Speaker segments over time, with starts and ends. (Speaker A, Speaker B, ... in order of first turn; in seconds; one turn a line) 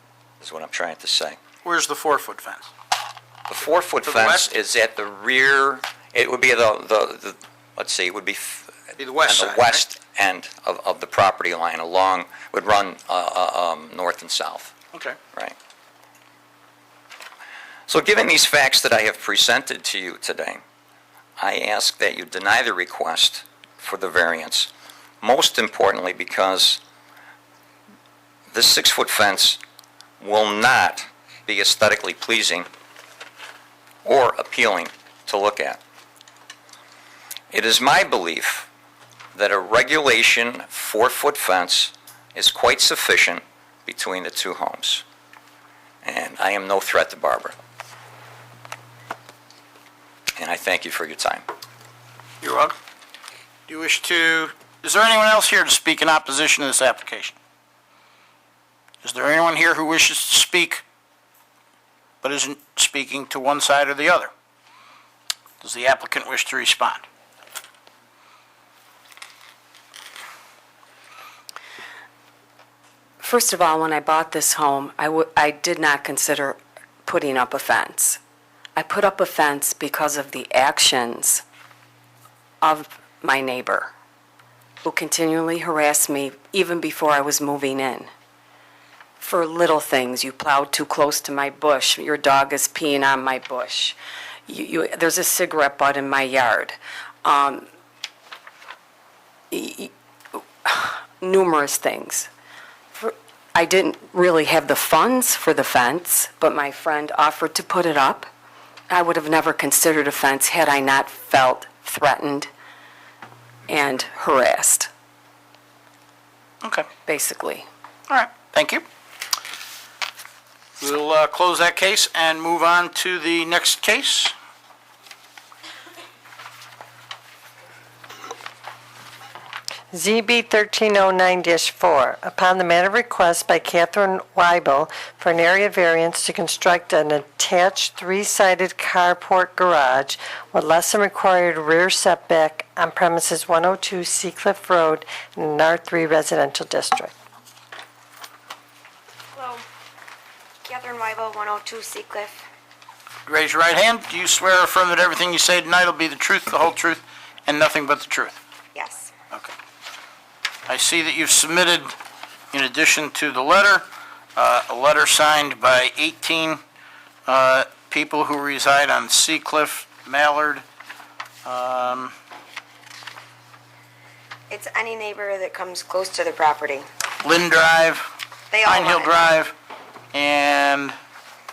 Speaker A: 0.4-1.4
Speaker B: 1.6-2.7
Speaker A: 3.5-14.7
Speaker B: 4.0-4.5
Speaker B: 9.0-9.8
Speaker B: 14.9-15.2
Speaker A: 17.9-20.6
Speaker A: 21.4-24.7
Speaker A: 25.2-26.8
Speaker A: 28.5-29.6
Speaker A: 30.2-32.7
Speaker A: 34.0-35.8
Speaker A: 37.5-38.7
Speaker A: 39.4-45.0
Speaker A: 46.0-47.5
Speaker A: 50.4-51.5
Speaker B: 52.4-52.7
Speaker B: 53.7-57.3
Speaker B: 59.0-60.8
Speaker B: 62.2-64.3
Speaker B: 65.6-67.0
Speaker C: 73.2-78.2
Speaker C: 78.8-81.4
Speaker C: 82.6-83.9
Speaker C: 84.8-88.1
Speaker C: 89.2-97.7
Speaker C: 99.5-99.9
Speaker C: 100.6-102.3
Speaker C: 103.0-108.3
Speaker C: 108.9-112.5
Speaker C: 113.7-114.9
Speaker C: 117.0-117.7
Speaker B: 118.1-118.8
Speaker B: 120.8-124.3
Speaker D: 129.9-147.1
Speaker E: 149.3-149.6
Speaker E: 150.6-152.4
Speaker B: 153.2-158.4
Speaker E: 158.7-159.1
Speaker B: 160.7-161.9
Speaker B: 162.5-166.6
Speaker B: 167.3-170.6
Speaker B: 171.4-172.1
Speaker E: 174.5-176.8
Speaker B: 177.2-178.1
Speaker E: 178.5-179.2
Speaker B: 178.6-179.5
Speaker B: 180.1-181.0